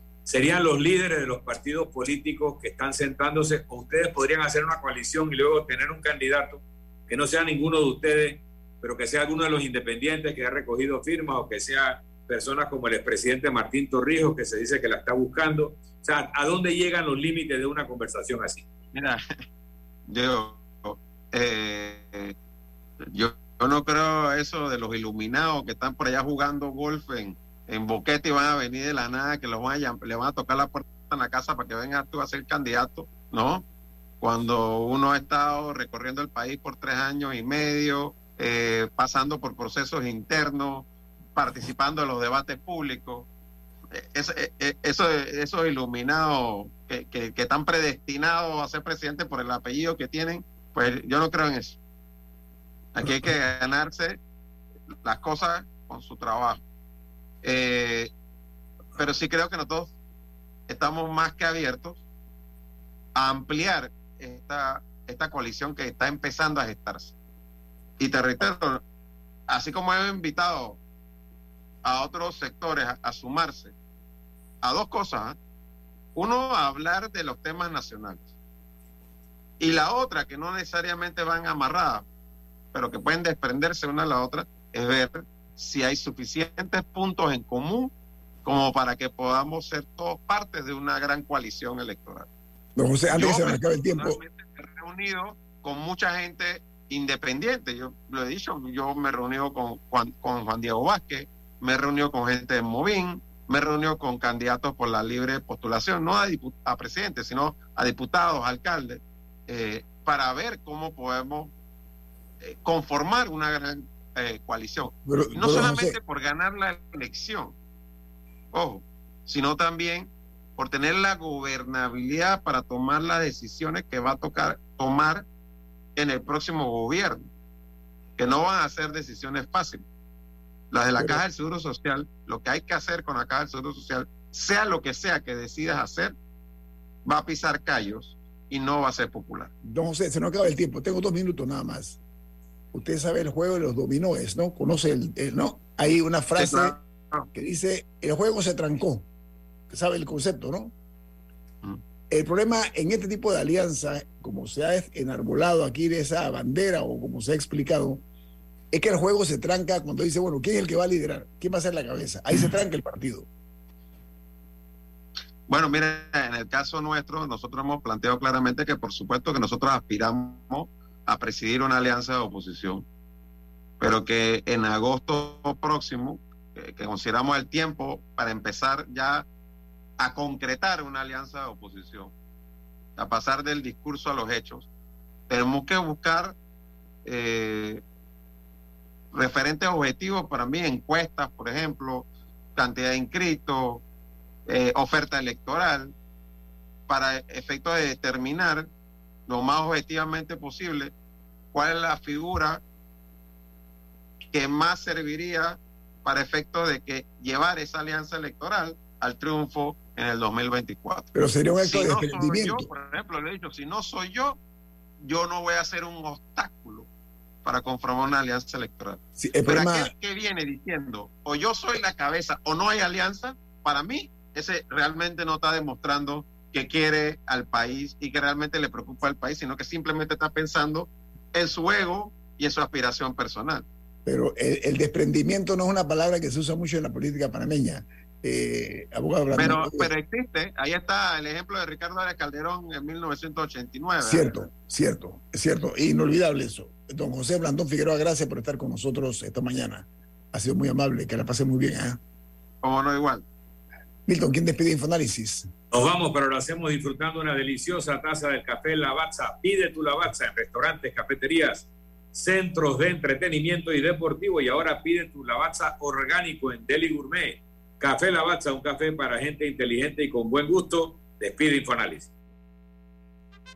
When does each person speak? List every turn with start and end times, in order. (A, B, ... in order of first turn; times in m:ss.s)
0:00.2-0:18.6 A
0:18.9-0:19.2 B
0:20.1-0:22.3 B
0:23.0-0:33.6 B
0:34.2-0:43.3 B
0:43.9-0:51.8 B
0:52.9-0:54.2 B
0:55.0-0:56.6 B
0:57.4-0:58.1 B
0:59.0-0:59.9 B
1:00.7-1:02.0 B
1:03.1-1:07.1 B
1:08.0-1:08.8 B
1:09.5-1:10.8 B
1:11.8-1:13.7 B
1:14.6-1:15.4 B
1:16.2-1:18.3 B
1:19.6-1:22.0 B
1:22.7-1:27.9 B
1:28.4-1:32.3 B
1:32.8-1:34.2 C
1:33.1-1:51.5 B
1:52.4-1:57.5 B
1:55.0-1:56.0 C
1:58.5-2:05.3 B
2:06.0-2:07.2 B
2:08.2-2:09.8 B
2:10.7-2:16.1 B
2:11.0-2:11.2 C
2:17.0-2:19.5 B
2:19.6-2:22.0 C
2:22.7-2:26.8 C
2:26.3-2:27.3 B
2:27.3-2:29.1 C
2:29.7-2:30.7 C
2:32.1-2:38.0 C
2:38.7-2:43.3 C
2:45.5-2:52.8 B
2:53.8-2:59.2 B
3:00.0-3:02.1 B
3:03.0-3:04.7 B
3:05.3-3:06.4 B
3:07.0-3:07.8 B
3:09.1-3:13.8 B
3:14.5-3:15.9 B
3:16.9-3:18.7 B
3:19.3-3:20.9 B
3:21.5-3:22.6 B
3:24.3-3:31.1 B
3:31.1-3:32.7 C
3:31.6-3:34.4 B
3:35.0-3:36.9 B
3:37.4-3:53.6 B
3:39.2-3:39.9 C
3:54.0-3:59.9 C
3:59.3-4:04.3 B
4:04.0-4:12.0 C
4:12.6-4:13.2 B
4:14.1-4:15.5 C
4:15.7-4:32.1 A